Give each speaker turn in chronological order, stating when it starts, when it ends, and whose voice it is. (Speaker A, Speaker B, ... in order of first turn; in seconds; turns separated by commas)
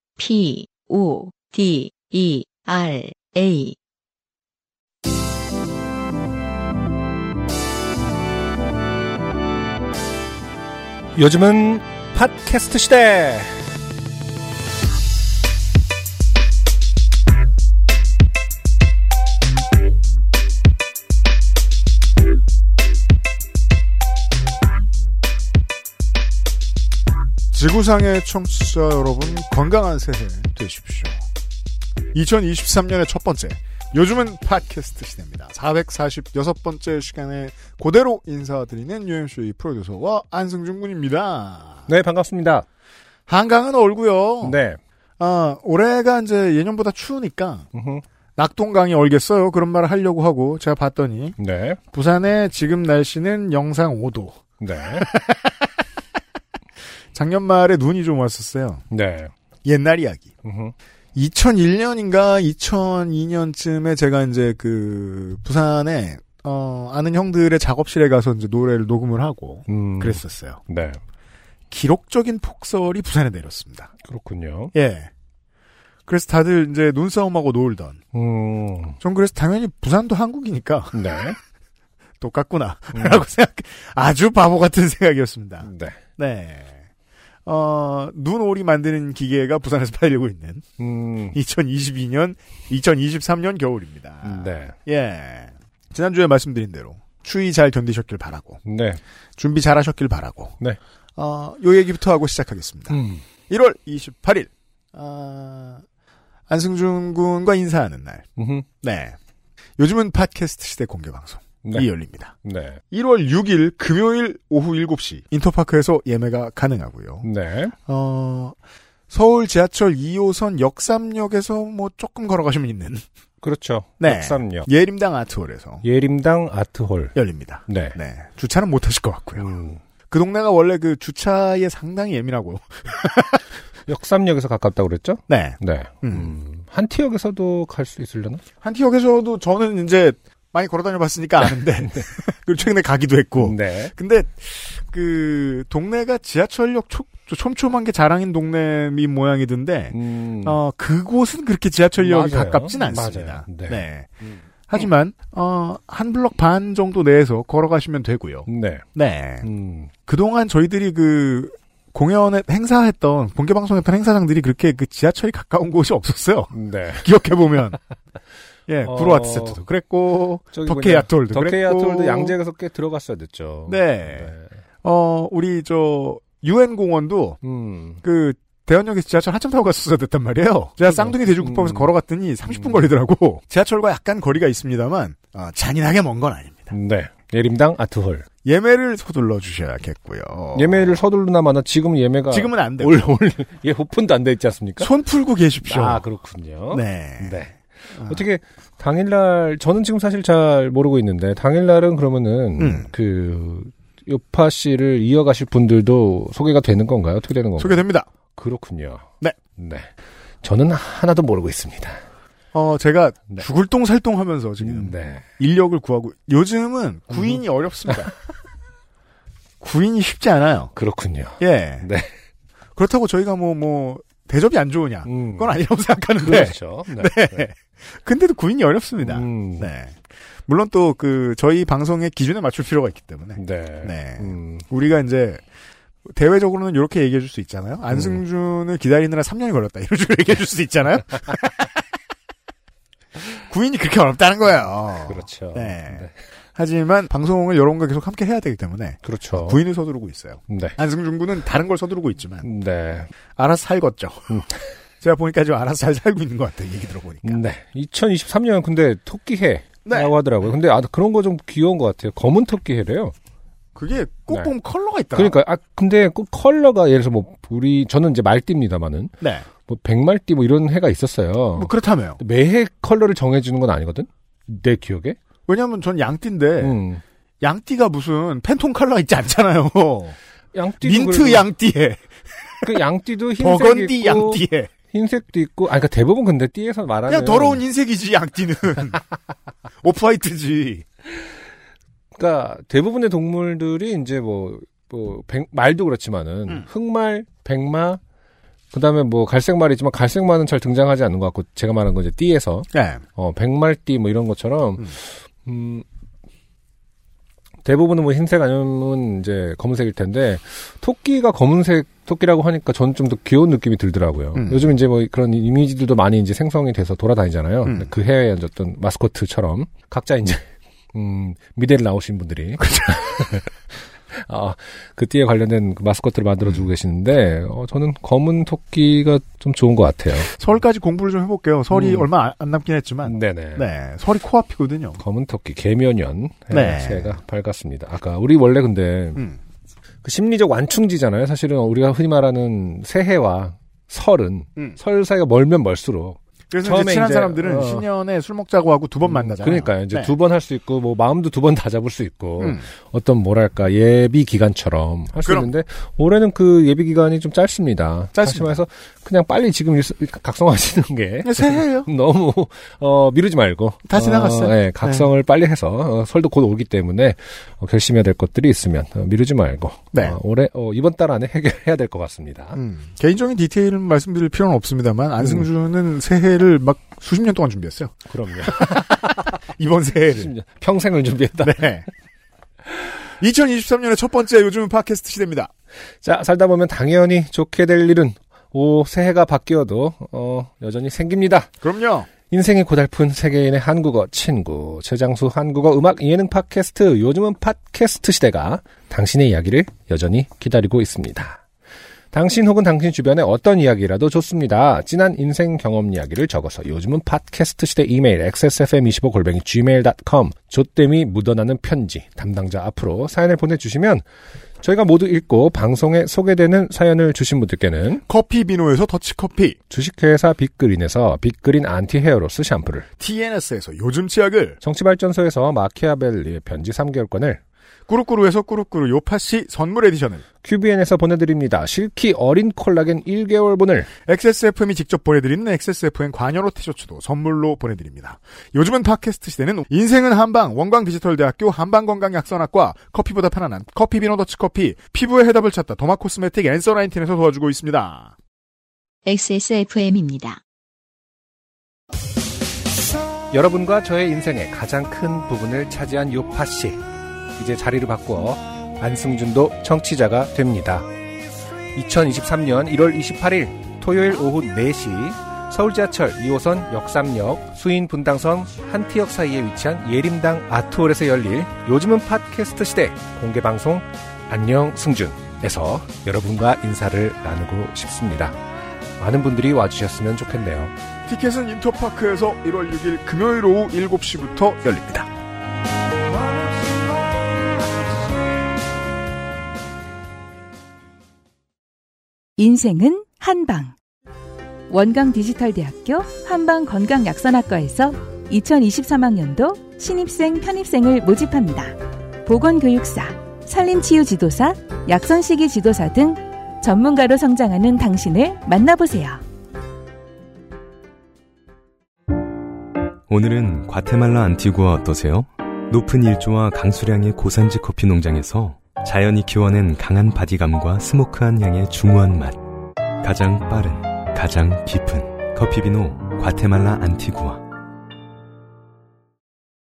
Speaker A: 0.2-3.8, Speaker B: 11.2-13.6, Speaker C: 27.5-31.2, Speaker C: 32.1-41.9, Speaker B: 41.9-42.7, Speaker C: 43.3-44.6, Speaker B: 44.4-44.8, Speaker C: 45.2-47.7, Speaker B: 47.7-48.0, Speaker C: 48.4-51.4, Speaker B: 51.4-51.8, Speaker C: 51.9-54.4, Speaker B: 54.6-55.1, Speaker C: 55.0-55.5, Speaker C: 57.1-58.8, Speaker B: 58.9-59.3, Speaker C: 59.6-60.3, Speaker B: 60.4-60.7, Speaker C: 61.1-70.6, Speaker B: 69.7-71.0, Speaker C: 71.7-73.9, Speaker B: 74.0-74.7, Speaker C: 74.7-75.1, Speaker C: 76.1-78.0, Speaker B: 78.1-79.0, Speaker C: 79.0-81.2, Speaker B: 80.9-81.4, Speaker C: 82.2-86.8, Speaker B: 82.9-83.2, Speaker B: 85.6-86.0, Speaker C: 87.5-90.7, Speaker B: 90.8-91.4, Speaker C: 91.3-98.6, Speaker B: 94.2-94.8, Speaker B: 98.7-99.0, Speaker C: 99.4-100.6, Speaker C: 101.2-103.0, Speaker B: 102.9-103.2, Speaker C: 103.5-105.8, Speaker C: 106.5-108.3, Speaker B: 108.4-108.7, Speaker C: 108.8-109.2, Speaker C: 109.8-112.3, Speaker B: 112.4-112.8, Speaker C: 112.9-117.2, Speaker B: 117.2-117.7, Speaker C: 117.8-118.6, Speaker C: 119.1-123.0, Speaker B: 123.4-124.7, Speaker C: 124.0-125.8, Speaker B: 125.8-127.1, Speaker C: 127.1-129.5, Speaker B: 127.7-128.0, Speaker B: 129.4-129.8, Speaker C: 130.1-133.4, Speaker B: 133.9-138.4, Speaker C: 135.3-136.3, Speaker C: 138.6-159.4, Speaker B: 143.4-143.9, Speaker B: 149.9-150.6, Speaker B: 152.0-153.8, Speaker B: 158.4-158.8, Speaker B: 159.4-159.9, Speaker C: 160.1-167.8, Speaker B: 166.5-167.0, Speaker C: 168.7-172.4, Speaker B: 168.8-169.6, Speaker B: 170.5-174.5, Speaker C: 173.7-177.4, Speaker B: 177.4-178.0, Speaker C: 178.0-186.8, Speaker B: 180.9-181.9, Speaker B: 186.7-188.2, Speaker C: 188.4-190.9, Speaker B: 190.5-194.9, Speaker C: 192.3-193.1, Speaker C: 194.8-196.0, Speaker B: 195.6-207.8, Speaker C: 196.7-198.2, Speaker C: 202.6-202.9, Speaker C: 207.6-208.1, Speaker B: 208.3-209.9, Speaker B: 210.4-212.0, Speaker C: 212.5-218.1, Speaker B: 214.6-215.2, Speaker C: 219.6-220.7, Speaker B: 220.8-222.1, Speaker C: 221.4-221.8, Speaker C: 222.8-235.4, Speaker B: 225.0-225.6, Speaker B: 226.2-227.4, Speaker B: 229.0-229.7, Speaker B: 233.3-234.7, Speaker C: 236.1-241.8, Speaker C: 243.4-252.4, Speaker B: 245.0-246.2, Speaker B: 249.0-249.6, Speaker B: 250.5-250.8, Speaker B: 252.4-253.1, Speaker C: 253.4-254.4, Speaker B: 254.3-254.6, Speaker C: 255.0-257.4, Speaker B: 257.2-263.1, Speaker C: 259.8-260.1, Speaker C: 263.8-265.4, Speaker B: 265.1-269.1, Speaker C: 269.2-269.4, Speaker B: 269.6-275.2, Speaker C: 271.6-272.2, Speaker C: 275.5-276.8, Speaker B: 276.6-277.0, Speaker C: 277.4-280.1, Speaker B: 280.5-281.5, Speaker C: 280.8-282.8, Speaker B: 282.6-287.6, Speaker C: 283.4-284.7, Speaker C: 287.1-289.0, Speaker C: 289.8-290.8, Speaker B: 292.1-298.0, Speaker B: 298.7-305.8, Speaker C: 302.7-303.0, Speaker B: 307.6-323.5, Speaker C: 314.3-314.7, Speaker C: 317.6-317.9, Speaker B: 324.1-330.3, Speaker C: 330.3-335.0, Speaker B: 331.7-332.1, Speaker B: 333.1-333.6, Speaker B: 335.0-339.2, Speaker C: 336.5-337.2, Speaker B: 340.0-347.9, Speaker C: 346.5-350.1, Speaker B: 349.1-372.6, Speaker C: 352.4-352.6, Speaker C: 355.2-355.5, Speaker C: 358.1-358.6, Speaker C: 361.2-361.9, Speaker C: 363.9-365.1, Speaker C: 369.9-370.2, Speaker C: 372.6-380.3, Speaker B: 378.1-379.2, Speaker B: 380.1-381.7, Speaker C: 381.4-381.9, Speaker C: 383.2-385.5, Speaker B: 386.0-391.5, Speaker C: 391.6-392.1, Speaker B: 392.3-401.4, Speaker B: 402.1-414.0, Speaker B: 414.6-418.0, Speaker C: 418.1-419.6, Speaker B: 419.7-422.9, Speaker C: 423.0-424.6, Speaker B: 424.6-427.4, Speaker C: 427.9-430.2, Speaker B: 430.4-433.9, Speaker C: 434.1-448.1, Speaker A: 449.1-450.4, Speaker B: 453.3-456.8, Speaker B: 457.4-460.9, Speaker B: 461.7-478.4, Speaker B: 479.0-480.7, Speaker C: 481.1-485.1, Speaker D: 492.4-493.8, Speaker D: 494.7-509.2, Speaker E: 513.1-522.4, Speaker E: 523.0-527.4